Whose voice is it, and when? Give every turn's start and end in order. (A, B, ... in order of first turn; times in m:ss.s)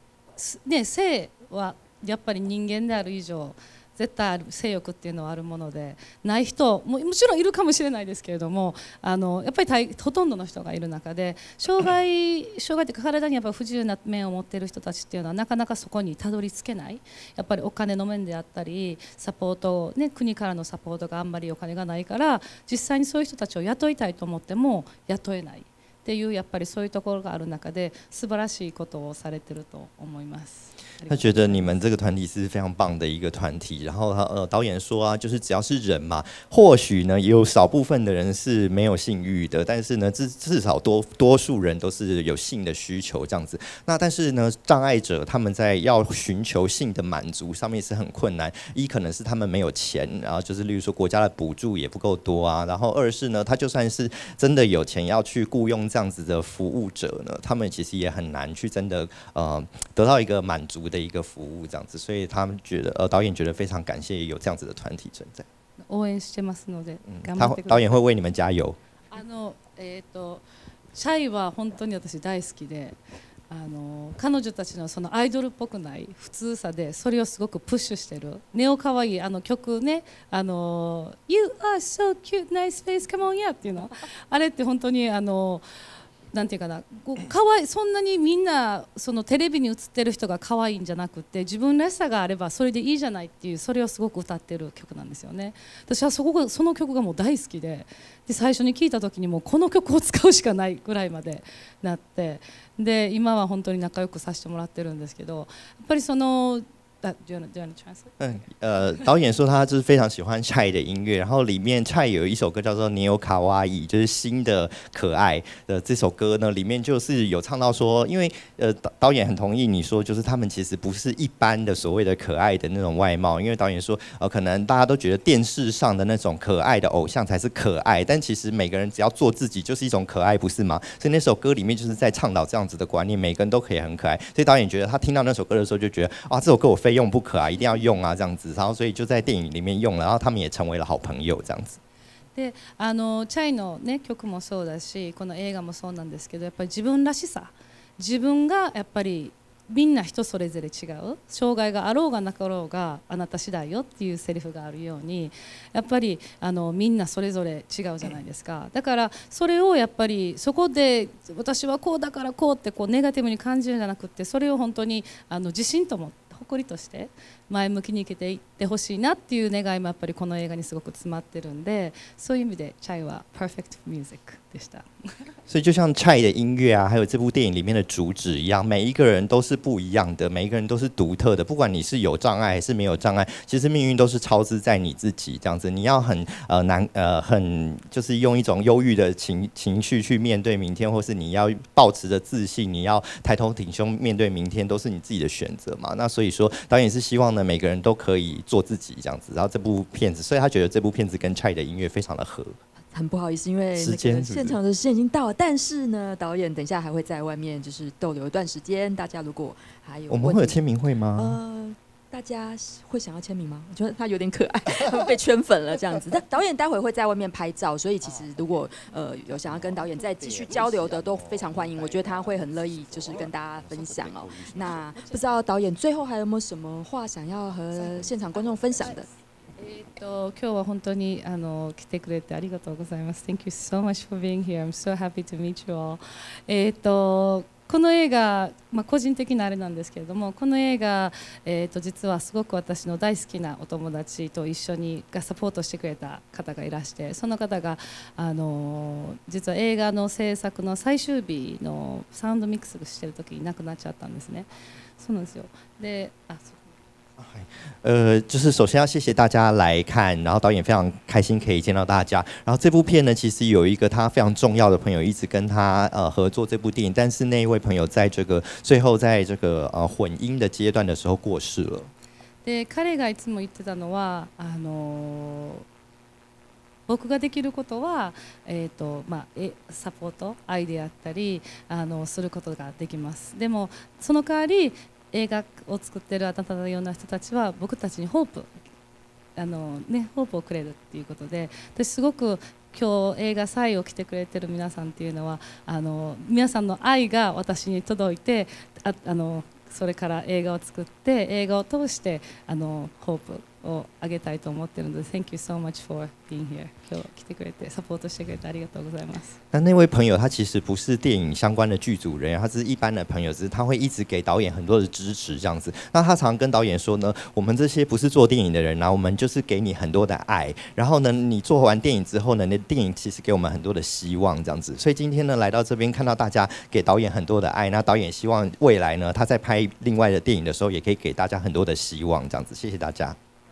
0:00.4-0:31.8 A
0:31.1-1:05.5 B
1:05.8-1:08.0 A
1:07.1-1:08.8 B
1:09.1-1:13.0 A
1:13.5-1:25.6 A
1:26.3-1:48.5 A
1:48.2-2:21.8 B
2:22.4-2:55.3 A
2:55.5-3:22.6 B
3:22.9-3:30.6 C
3:23.7-3:24.6 B
3:30.1-3:31.4 B
3:31.2-3:49.1 C
3:38.0-3:38.7 B
3:39.2-3:45.2 B
3:47.7-3:48.9 B
3:48.4-3:49.0 A
3:49.6-4:16.6 A
4:17.2-4:31.9 B
4:32.4-4:35.6 A
4:36.9-4:48.5 A
4:49.4-5:09.4 A
5:09.5-5:33.2 B